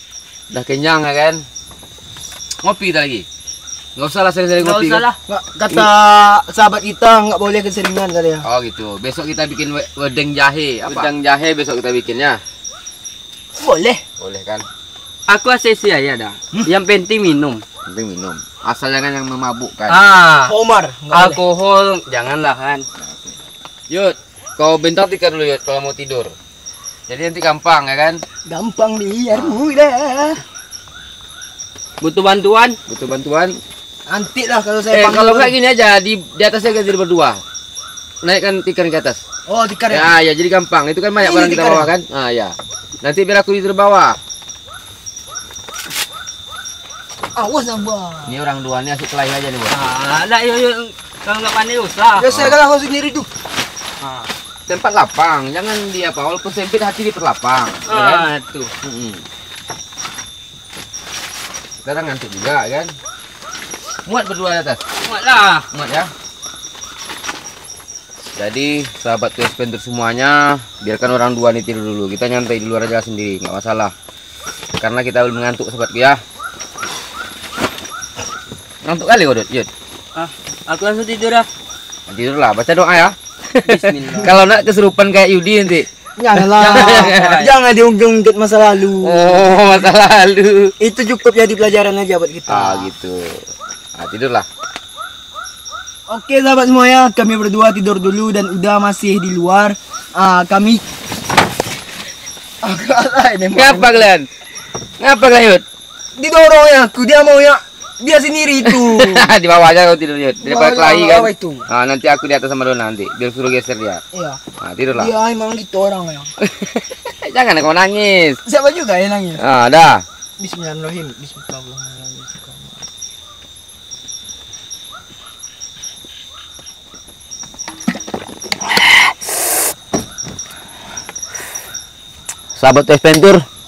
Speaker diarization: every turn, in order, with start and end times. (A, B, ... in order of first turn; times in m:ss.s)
0:00.5-0:01.4 A
0:02.6-0:03.3 A
0:04.0-0:05.1 A
0:04.6-0:05.2 B
0:05.3-0:08.4 C
0:08.4-0:12.4 A
0:13.5-0:14.0 C
0:14.2-0:14.7 A
0:15.3-0:17.6 B
0:17.9-0:20.0 A
0:19.9-0:20.5 B
0:20.5-0:21.4 C
0:21.1-0:22.8 B
0:23.9-0:26.4 A
0:27.1-0:28.2 A
0:28.5-0:30.4 C
0:29.3-0:29.6 A
0:32.0-0:32.8 B
0:32.9-0:33.6 A
0:34.1-0:35.5 C
0:34.9-0:37.4 A
0:38.2-0:39.2 A
0:39.5-0:40.1 C
0:39.9-0:44.2 A
0:41.2-0:41.9 C
0:47.4-0:48.3 C
0:48.3-0:49.9 A
0:49.7-0:52.3 B
0:52.2-0:53.3 C
0:52.2-0:52.6 A
0:54.0-0:54.3 B
0:54.7-0:58.3 A
0:57.9-0:58.7 B
0:58.8-0:59.2 A
1:01.8-1:02.9 A
1:04.1-1:04.8 A
1:05.0-1:05.7 B
1:05.7-1:06.1 A
1:08.4-1:13.9 A
1:14.8-1:16.2 A
1:18.8-1:19.7 A
1:20.2-1:21.5 B
1:22.1-1:27.4 A
1:23.6-1:24.3 B
1:26.2-1:29.4 C
1:26.6-1:27.6 B
1:29.0-1:30.7 A
1:30.8-1:32.9 C
1:32.5-1:33.5 A
1:34.0-1:34.5 A
1:36.1-1:40.8 C
1:42.6-1:44.1 C
1:43.5-1:44.3 A
1:45.0-1:45.6 A
1:46.2-1:49.3 C
1:48.7-1:54.0 A
1:50.4-1:51.7 C
1:54.1-1:54.4 C
1:54.6-1:55.1 A
1:54.9-1:56.3 C
1:56.5-1:58.4 A
1:58.4-1:59.4 C
1:59.4-2:00.0 A
2:00.4-2:02.7 C
2:12.6-2:13.4 A